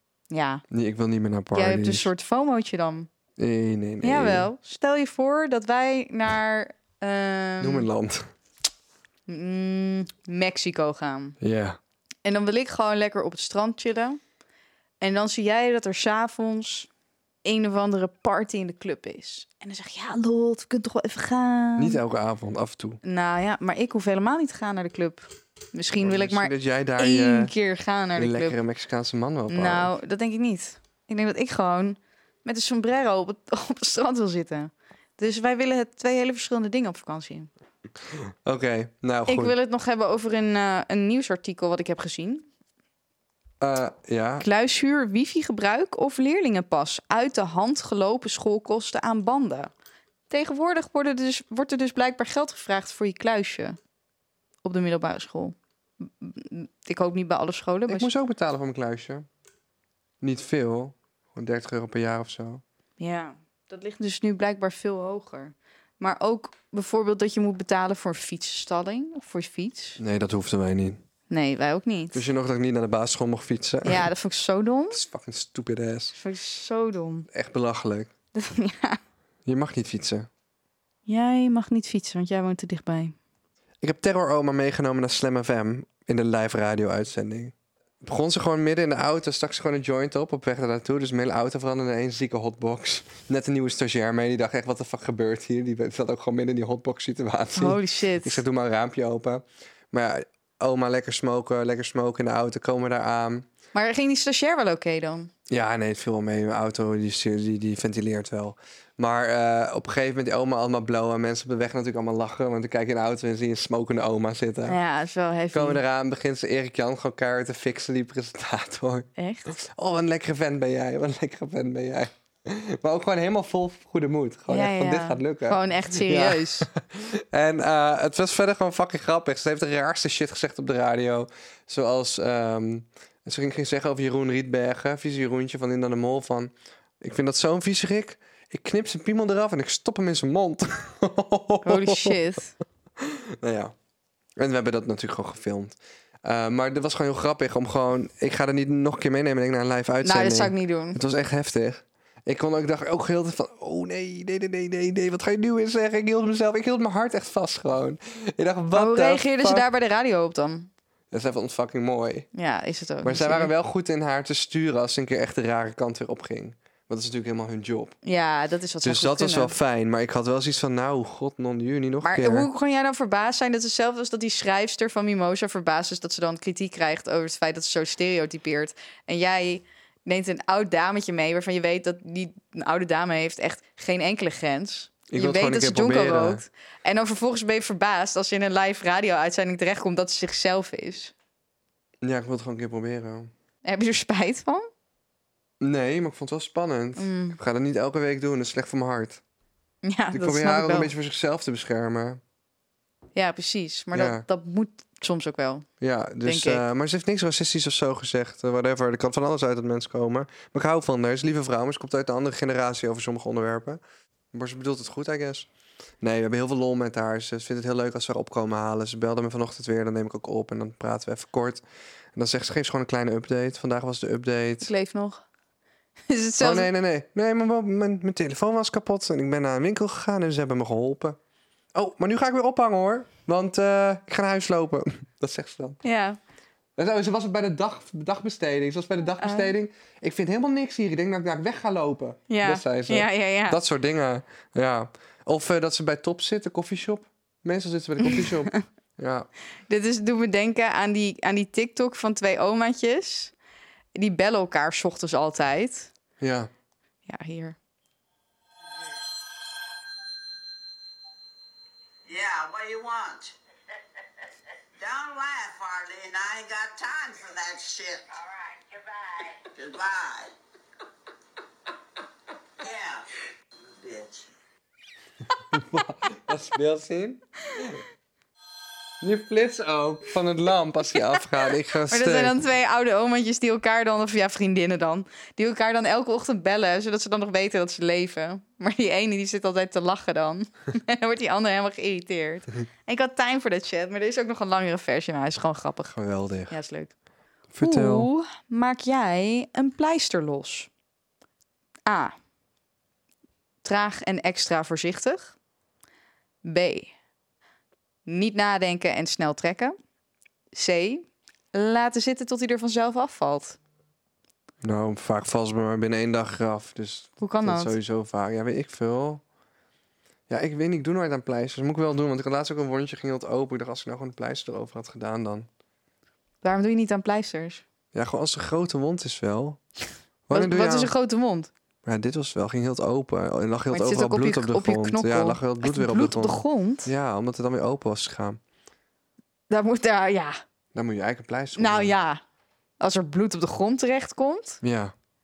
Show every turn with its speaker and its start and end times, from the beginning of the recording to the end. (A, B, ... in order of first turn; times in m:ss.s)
0:00.3-0:00.6 A
0:00.7-0:02.1 B
0:01.5-0:03.1 A
0:03.4-0:04.5 B
0:04.0-0:07.9 A
0:07.6-0:08.3 B
0:09.3-0:11.4 A
0:11.4-0:11.8 B
0:12.2-0:14.2 A
0:15.0-0:16.9 A
0:17.4-0:22.0 A
0:21.8-0:23.0 B
0:23.0-0:28.6 A
0:26.0-0:27.5 B
0:28.2-0:29.9 B
0:29.5-0:37.5 A
0:38.4-0:39.5 B
0:39.3-0:42.4 A
0:43.6-0:44.4 B
0:44.4-0:49.7 A
0:50.3-0:53.8 A
0:54.6-0:58.1 A
0:57.9-0:59.2 B
1:00.2-1:02.6 B
1:03.0-1:10.0 A
1:10.0-1:11.0 B
1:11.3-1:12.2 A
1:12.1-1:14.1 B
1:13.8-1:15.0 A
1:14.9-1:16.2 B
1:16.2-1:17.3 A
1:17.3-1:18.1 B
1:18.3-1:19.0 A
1:19.5-1:20.3 B
1:21.1-1:23.1 A
1:23.8-1:43.5 B
1:37.6-1:38.4 A
1:43.7-1:45.3 A
1:45.5-1:54.8 B
1:54.7-1:55.8 A
1:55.5-2:22.2 B
1:59.2-1:59.6 A
2:04.5-2:06.7 A
2:21.6-2:22.5 A
2:23.0-2:23.8 B
2:24.4-2:39.7 B
2:30.0-2:31.0 A
2:38.8-2:40.7 A
2:41.1-2:42.3 B
2:42.4-2:43.5 A
2:43.0-2:48.0 B
2:48.0-2:49.5 A
2:48.8-2:52.5 B
2:52.0-3:11.1 A
3:05.1-3:06.4 B
3:12.0-3:13.3 B
3:13.6-3:14.7 A
3:15.6-3:19.2 B
3:17.0-3:17.4 A
3:19.8-3:20.9 A
3:20.1-3:22.2 B
3:23.2-3:25.6 A
3:23.9-3:24.2 B
3:25.8-3:33.8 B
3:26.2-3:26.6 A
3:34.3-3:35.5 B
3:36.0-3:41.6 B
3:42.2-3:44.7 B
3:44.6-3:45.2 A
3:46.1-3:46.7 A
3:46.4-3:51.2 B
3:51.7-3:55.8 B
3:55.8-3:56.2 A
3:56.8-4:09.3 B
3:59.2-3:59.5 A
4:02.3-4:03.6 A
4:08.0-4:08.6 A
4:09.7-4:13.3 A
4:14.0-4:15.9 A
4:16.2-4:16.5 B
4:17.1-4:17.6 A
4:22.0-4:23.3 C
4:24.8-4:30.3 C
4:32.6-4:33.0 C
4:33.6-4:34.3 C
4:35.4-4:37.8 B
4:39.0-4:42.4 B
4:41.9-4:56.0 A
4:55.9-4:56.5 B
4:56.5-4:56.9 A
4:57.5-4:58.1 B
4:57.6-5:00.7 A
5:01.9-5:02.1 A
5:03.6-5:05.3 A
5:06.4-5:06.9 A
5:08.0-5:09.8 A
5:10.5-5:13.6 A
5:14.6-5:19.2 B
5:17.2-5:17.8 A
5:20.3-5:25.5 B
5:26.4-5:27.6 A
5:27.9-5:29.6 B
5:30.3-5:30.9 B
5:30.3-5:31.5 A
5:31.8-5:38.4 B
5:33.7-5:36.9 A
5:39.5-5:40.4 A
5:40.7-5:41.9 B
5:41.6-5:42.2 A
5:42.8-5:44.6 A
5:44.6-5:44.9 B